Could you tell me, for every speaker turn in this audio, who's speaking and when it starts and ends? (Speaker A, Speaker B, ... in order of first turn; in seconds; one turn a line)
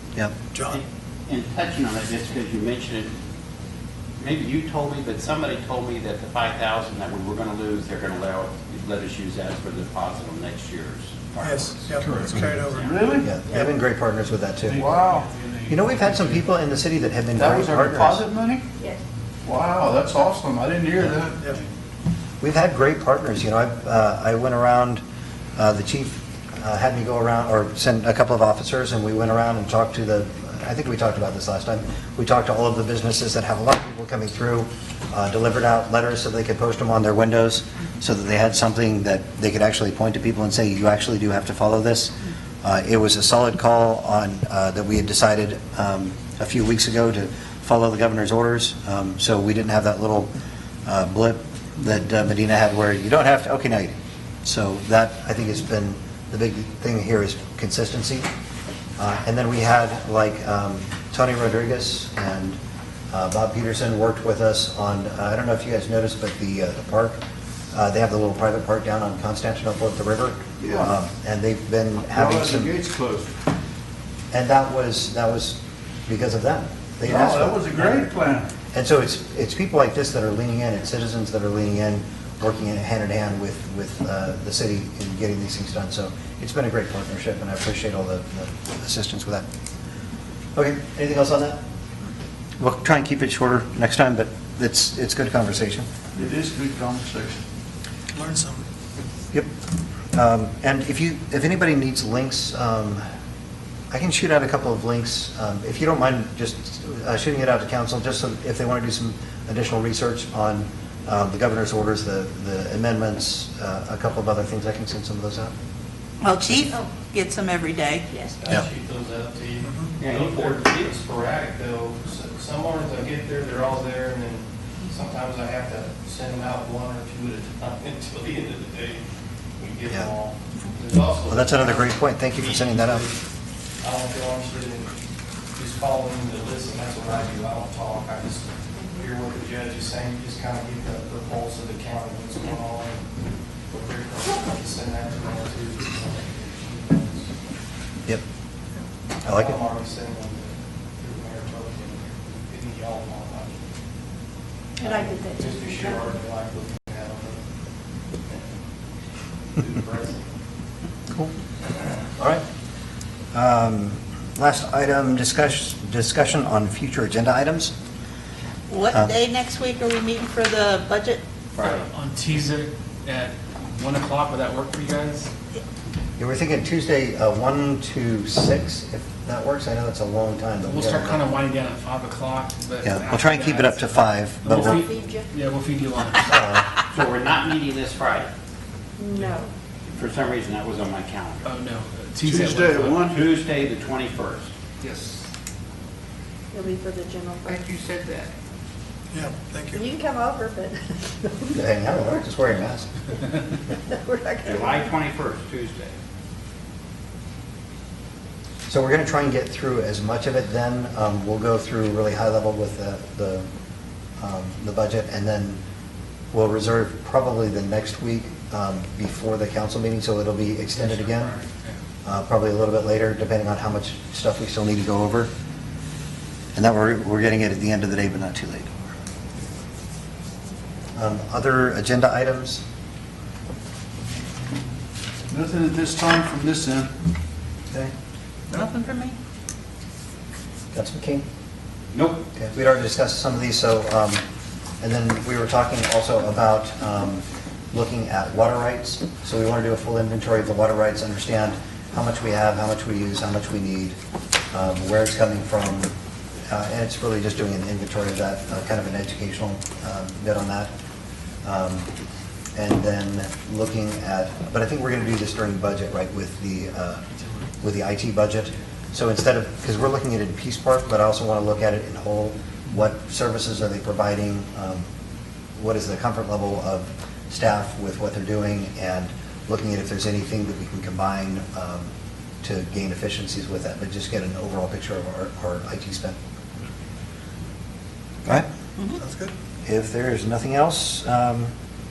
Speaker A: 0.5-0.8
Speaker B: 0.7-3.1
Speaker B: 4.2-12.5
Speaker A: 11.4-13.0
Speaker C: 12.8-13.3
Speaker D: 13.2-14.8
Speaker C: 14.7-15.4
Speaker E: 14.8-16.3
Speaker D: 15.7-18.2
Speaker C: 17.4-18.7
Speaker C: 19.4-21.6
Speaker D: 22.4-25.0
Speaker D: 25.6-50.3
Speaker D: 50.9-53.9
Speaker D: 54.4-58.3
Speaker D: 59.0-62.6
Speaker D: 63.1-67.2
Speaker D: 67.7-72.7
Speaker C: 70.6-71.0
Speaker C: 72.1-73.3
Speaker D: 74.3-78.1
Speaker C: 77.0-78.5
Speaker D: 78.7-89.5
Speaker D: 90.5-91.6
Speaker D: 92.6-95.9
Speaker C: 96.2-97.4
Speaker A: 98.2-98.6
Speaker D: 100.1-103.0
Speaker D: 103.9-115.5
Speaker F: 116.2-118.1
Speaker G: 118.4-129.0
Speaker B: 120.0-120.9
Speaker G: 129.6-133.2
Speaker D: 131.3-133.1
Speaker G: 133.8-134.9
Speaker G: 135.6-143.0
Speaker G: 143.7-147.3
Speaker G: 149.2-153.6
Speaker D: 149.2-149.6
Speaker H: 154.8-156.0
Speaker G: 154.8-157.4
Speaker G: 159.6-160.3
Speaker D: 162.2-162.4
Speaker D: 163.3-167.7
Speaker F: 168.7-171.2
Speaker B: 171.6-171.9
Speaker E: 171.6-175.3
Speaker D: 176.2-181.3
Speaker E: 180.6-186.4
Speaker D: 182.8-184.8
Speaker H: 184.5-185.3
Speaker D: 186.2-186.7
Speaker B: 186.9-188.3
Speaker H: 189.0-189.5
Speaker B: 189.9-191.5
Speaker E: 191.4-193.1
Speaker C: 192.2-193.3
Speaker B: 193.1-194.5
Speaker E: 194.8-195.2
Speaker H: 196.5-197.7
Speaker A: 199.1-199.8
Speaker H: 199.7-201.6
Speaker D: 201.5-202.9
Speaker H: 203.9-204.9
Speaker B: 204.4-206.0
Speaker D: 208.7-213.5
Speaker D: 214.2-215.6
Speaker D: 216.3-221.4
Speaker E: 220.7-221.8
Speaker D: 222.1-225.3
Speaker D: 226.5-228.8
Speaker D: 230.9-232.6
Speaker C: 235.3-236.9
Speaker F: 238.5-239.2
Speaker D: 240.7-241.2
Speaker B: 241.9-242.2
Speaker D: 242.3-244.2
Speaker D: 244.8-254.0
Speaker D: 254.5-255.9
Speaker D: 256.5-260.7
Speaker D: 261.4-261.9
Speaker D: 262.6-267.0
Speaker D: 267.6-274.9
Speaker D: 275.6-281.9
Speaker D: 282.4-286.2
Speaker A: 289.0-289.3
Speaker D: 289.6-291.5